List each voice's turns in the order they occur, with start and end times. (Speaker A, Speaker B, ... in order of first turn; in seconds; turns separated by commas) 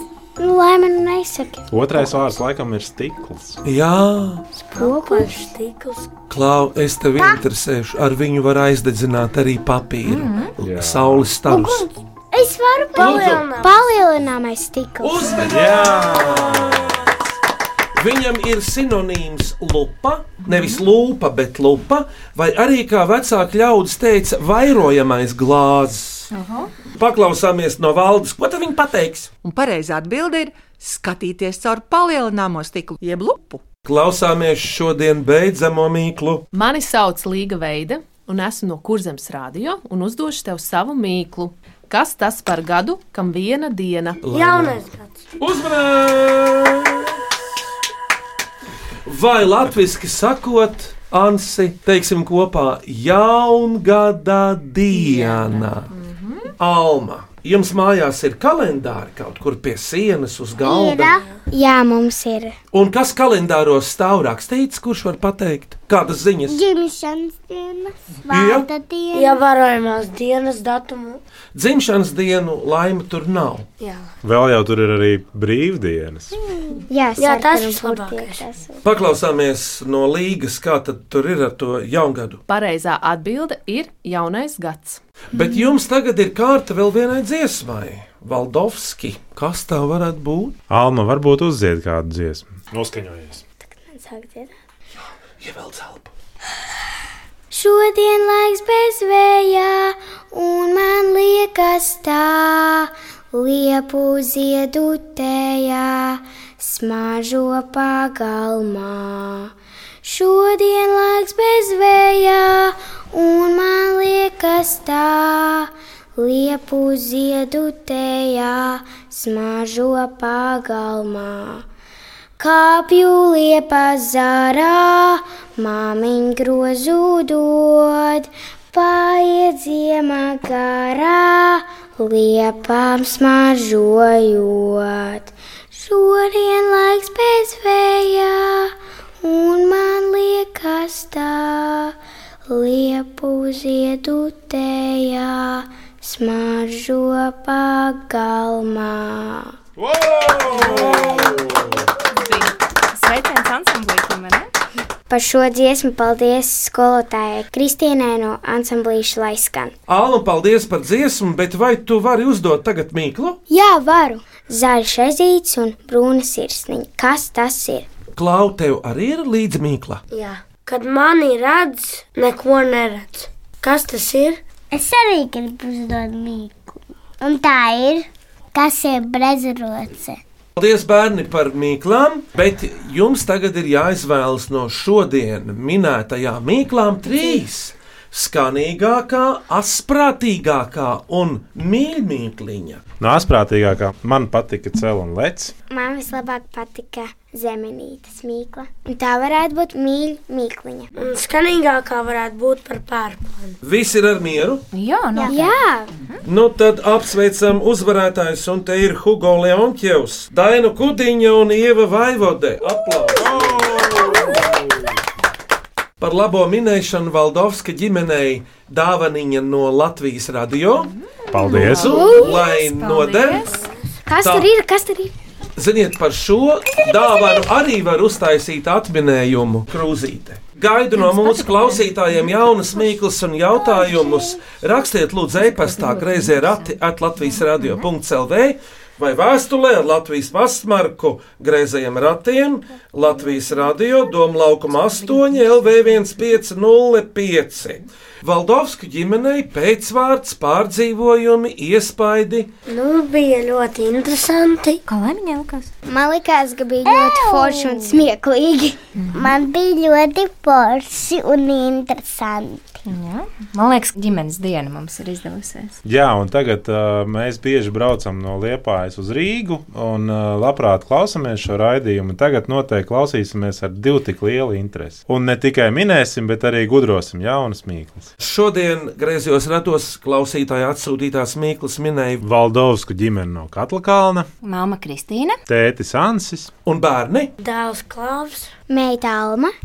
Speaker A: 0.4-1.7, Speaker B: 1.7-3.6, Speaker C: 3.6-4.5, Speaker D: 4.7-6.1, Speaker A: 4.8-5.5, Speaker C: 6.3-11.9, Speaker E: 10.1-10.5, Speaker B: 10.6-11.3, Speaker F: 11.5-13.0, Speaker D: 12.9-13.9, Speaker C: 13.0-13.5, Speaker A: 13.6-15.4, Speaker C: 15.0-17.2, Speaker B: 15.4-17.1, Speaker C: 18.0-26.3, Speaker E: 20.4-20.8, Speaker E: 26.3-26.7, Speaker C: 27.0-29.3, Speaker G: 29.4-33.6, Speaker C: 33.9-36.5, Speaker H: 36.5-44.2, Speaker C: 44.2-44.8, Speaker D: 44.3-45.2, Speaker C: 45.4-47.1, Speaker C: 49.1-55.9, Speaker E: 54.9-56.5, Speaker C: 56.6-61.2, Speaker F: 60.6-61.2, Speaker A: 61.5-62.5, Speaker C: 62.7-66.6, Speaker F: 66.5-69.4, Speaker C: 68.3-68.7, Speaker D: 69.1-71.2, Speaker C: 71.5-73.7, Speaker D: 73.8-74.1, Speaker B: 74.2-76.4, Speaker A: 76.9-78.8, Speaker D: 77.2-78.5, Speaker C: 78.8-82.4, Speaker H: 82.5-85.0, Speaker C: 85.3-90.6, Speaker B: 90.7-93.4, Speaker A: 93.6-94.5, Speaker C: 95.4-96.1, Speaker A: 97.5-109.5, Speaker A: 110.0-121.7, Speaker A: 122.4-141.9, Speaker A: 142.5-149.6, Speaker B: 149.8-151.9, Speaker C: 150.5-151.2, Speaker A: 150.6-151.5, Speaker E: 152.1-154.5, Speaker A: 155.1-159.7, Speaker C: 159.9-163.4, Speaker A: 163.5-167.9, Speaker C: 168.2-170.0, Speaker D: 170.1-174.4, Speaker F: 174.7-180.2, Speaker C: 180.6-192.8, Speaker B: 193.0-195.5, Speaker A: 195.7-200.9, Speaker D: 200.9-203.6, Speaker C: 203.6-204.6, Speaker E: 204.7-206.2, Speaker F: 205.2-205.4, Speaker A: 205.3-205.9, Speaker C: 206.2-214.2, Speaker B: 213.2-214.9, Speaker C: 216.0-220.9, Speaker E: 220.8-223.6, Speaker B: 221.3-222.2, Speaker C: 221.4-223.6, Speaker A: 221.9-222.4, Speaker A: 224.1-225.1, Speaker C: 224.2-224.5, Speaker C: 225.6-252.5, Speaker E: 230.9-232.6, Speaker F: 233.5-234.6, Speaker E: 235.3-237.9, Speaker E: 244.7-246.3, Speaker D: 252.7-254.8, Speaker E: 254.9-255.7, Speaker A: 255.9-258.8, Speaker F: 256.8-258.1, Speaker E: 259.0-259.3, Speaker F: 259.1-262.7, Speaker E: 262.9-265.8, Speaker B: 265.9-278.1, Speaker C: 278.2-282.2, Speaker B: 282.2-284.3, Speaker E: 284.4-285.4, Speaker B: 285.5-286.5, Speaker C: 286.7-287.3, Speaker D: 287.4-288.5, Speaker A: 288.7-289.5